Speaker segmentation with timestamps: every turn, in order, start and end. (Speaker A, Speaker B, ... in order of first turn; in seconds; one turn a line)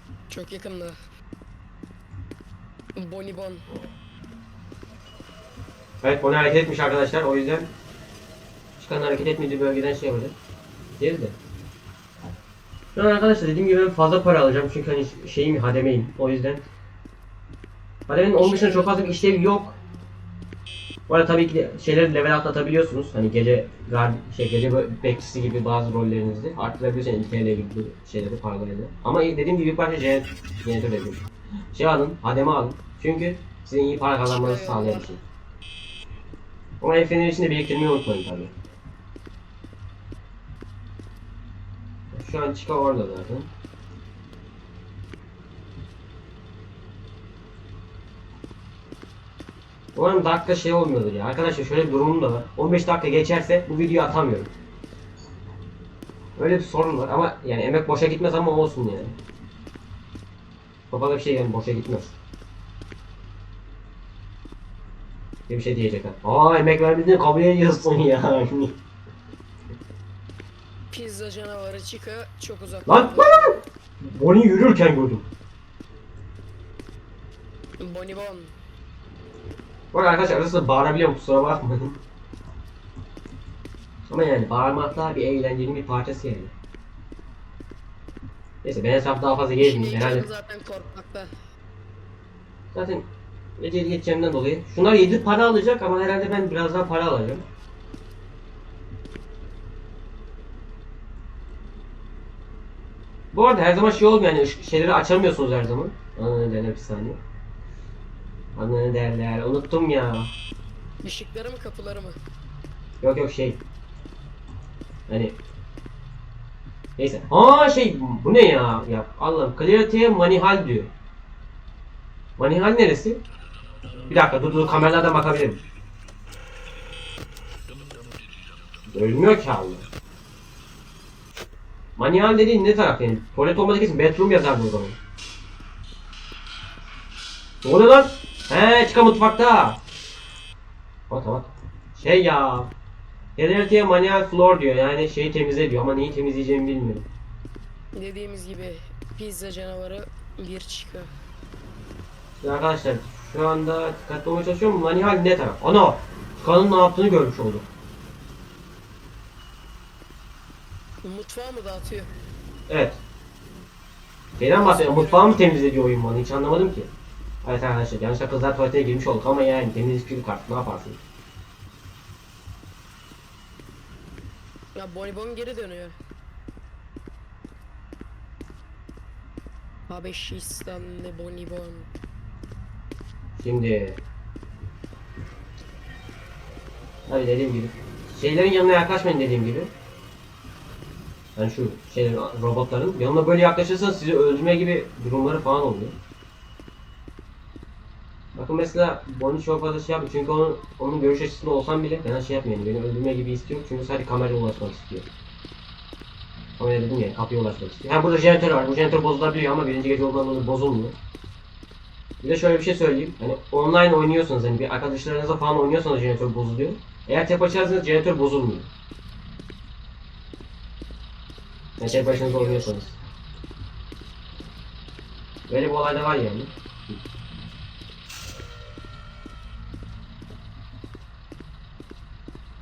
Speaker A: 0.3-1.0
Speaker A: 3.0-3.7
Speaker B: 6.0-7.7
Speaker B: 8.8-10.3
Speaker B: 11.0-11.4
Speaker B: 13.0-16.6
Speaker B: 18.1-19.8
Speaker A: 18.4-19.0
Speaker B: 21.1-35.2
Speaker A: 34.2-35.2
Speaker B: 36.8-38.5
Speaker B: 42.1-43.5
Speaker B: 50.0-54.5
Speaker B: 56.4-59.2
Speaker B: 60.9-62.1
Speaker B: 65.5-68.8
Speaker A: 70.9-73.6
Speaker B: 72.9-75.3
Speaker A: 77.8-78.6
Speaker B: 79.9-82.0
Speaker B: 84.1-86.5
Speaker B: 88.6-90.2
Speaker A: 89.6-91.3
Speaker B: 92.7-93.0
Speaker B: 93.6-97.4
Speaker B: 103.3-107.2
Speaker B: 108.6-110.3
Speaker A: 111.0-112.2
Speaker B: 113.0-113.6
Speaker B: 115.1-115.4
Speaker B: 117.0-120.9
Speaker B: 122.4-123.2
Speaker B: 124.1-125.6
Speaker B: 128.9-129.8
Speaker B: 132.0-135.0
Speaker B: 137.6-139.8
Speaker B: 141.1-142.7
Speaker B: 143.4-147.1
Speaker A: 147.9-151.1
Speaker B: 152.4-157.7
Speaker A: 161.0-162.1
Speaker B: 162.7-163.0
Speaker B: 164.4-166.9
Speaker A: 164.6-165.4
Speaker B: 167.4-171.0
Speaker A: 174.8-176.0
Speaker A: 179.9-181.9
Speaker B: 183.4-184.0
Speaker B: 187.1-189.7
Speaker B: 191.4-196.0
Speaker B: 198.4-205.1
Speaker B: 206.6-211.0
Speaker B: 212.2-218.7
Speaker A: 221.8-222.8
Speaker B: 221.8-223.0
Speaker B: 225.5-227.0